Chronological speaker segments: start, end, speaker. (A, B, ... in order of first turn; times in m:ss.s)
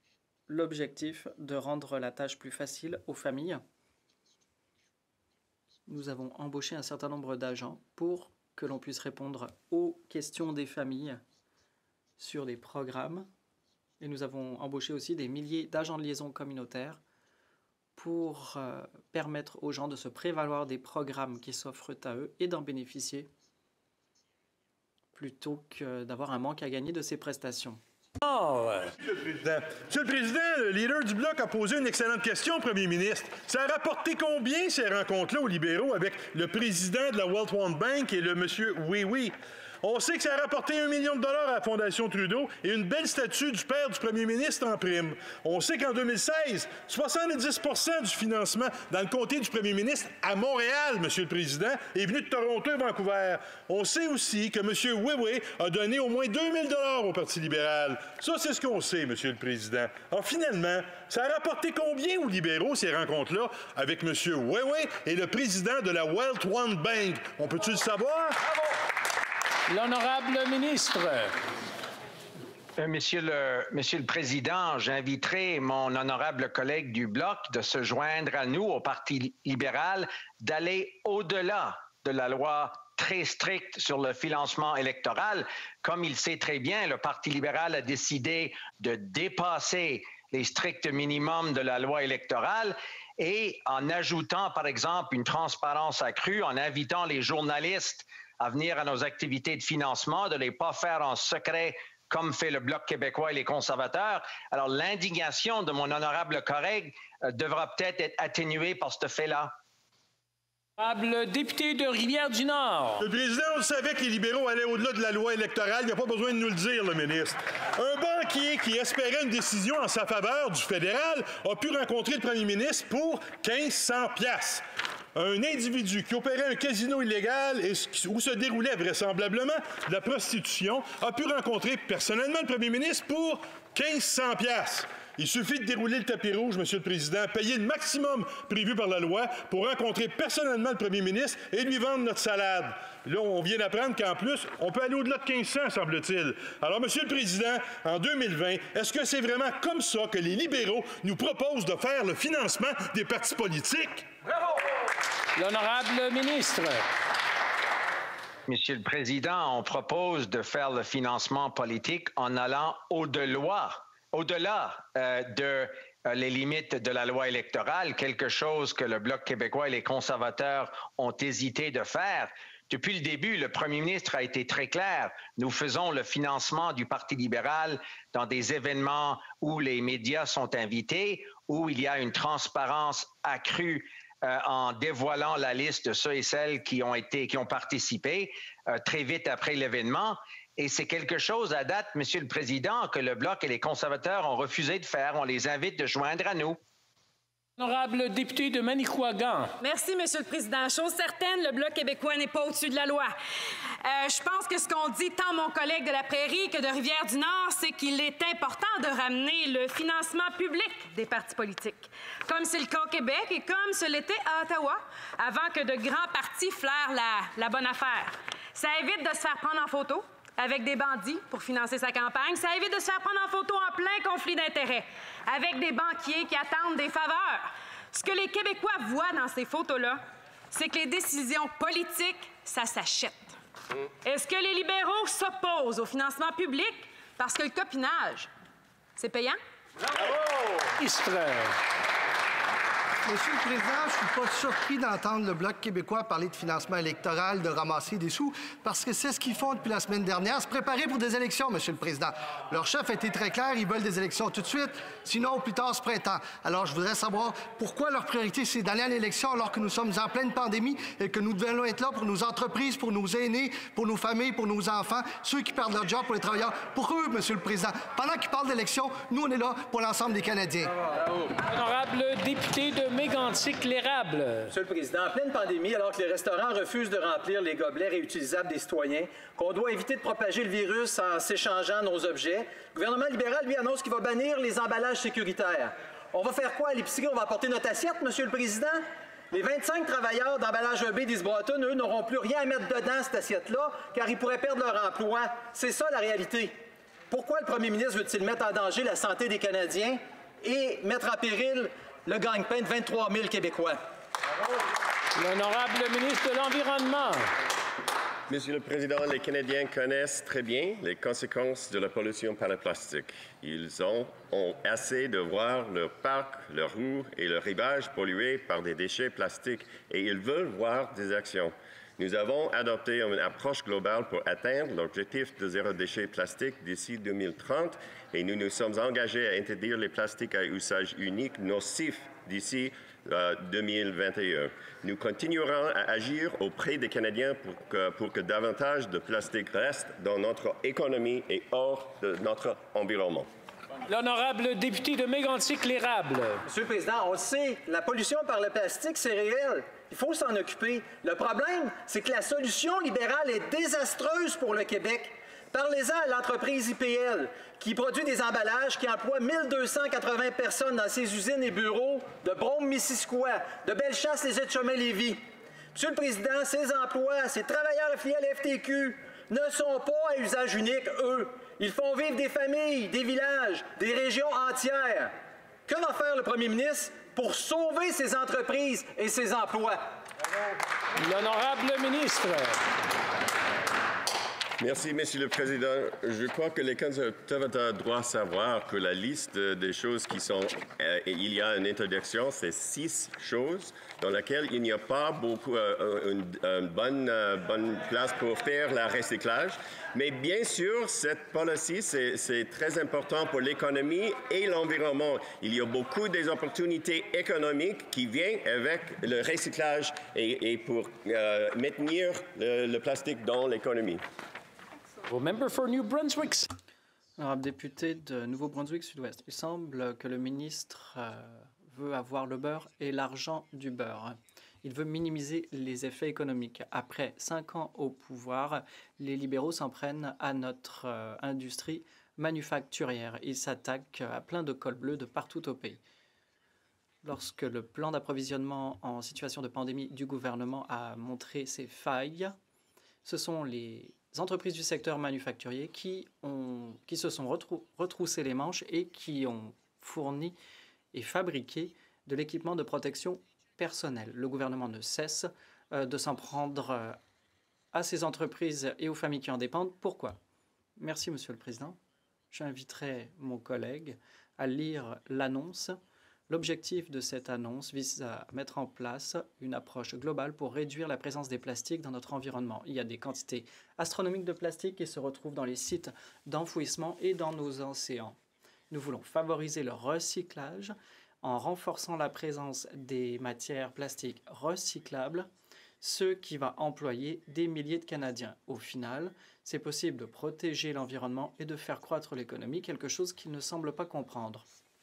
0:00.5-0:03.6 A
0:05.9-0:11.2 A
0:12.2-0:13.3 A
0:14.0-0:17.0 A
0:18.0-0:23.3 A
0:25.2-0:27.8 A
0:28.2-0:28.9 B
0:29.3-1:08.4 C
1:09.7-1:11.3 B
1:12.8-1:49.5 D
1:50.8-1:53.0 B
1:53.0-2:04.6 C
2:05.2-2:34.1 C
2:35.4-2:36.9 B
2:38.5-3:16.6 D
3:17.6-3:19.5 B
3:19.6-3:23.2 E
3:23.8-3:53.4 E
3:54.0-3:58.3 E
3:59.0-3:59.4 E
4:00.8-4:01.6 B
4:03.0-4:30.7 F
4:31.4-4:34.5 B
4:34.5-4:56.5 G
4:57.1-5:03.8 G
5:05.2-5:07.3 B
5:08.3-5:43.3 H
5:43.9-5:46.4 B
5:46.4-6:05.2 G
6:05.7-6:15.1 G
6:15.7-6:19.9 G
6:21.0-6:22.6 B
6:24.6-6:54.0 H
6:55.1-6:56.5 B
6:57.2-7:15.8 A
7:17.0-7:22.4 A
7:23.0-7:30.4 A
7:30.9-7:37.0 A
7:37.7-7:40.2 A
7:40.8-7:41.8 A
7:42.3-7:45.8 A
7:46.3-7:58.2 A
7:58.7-8:05.3 A
8:05.8-8:14.4 A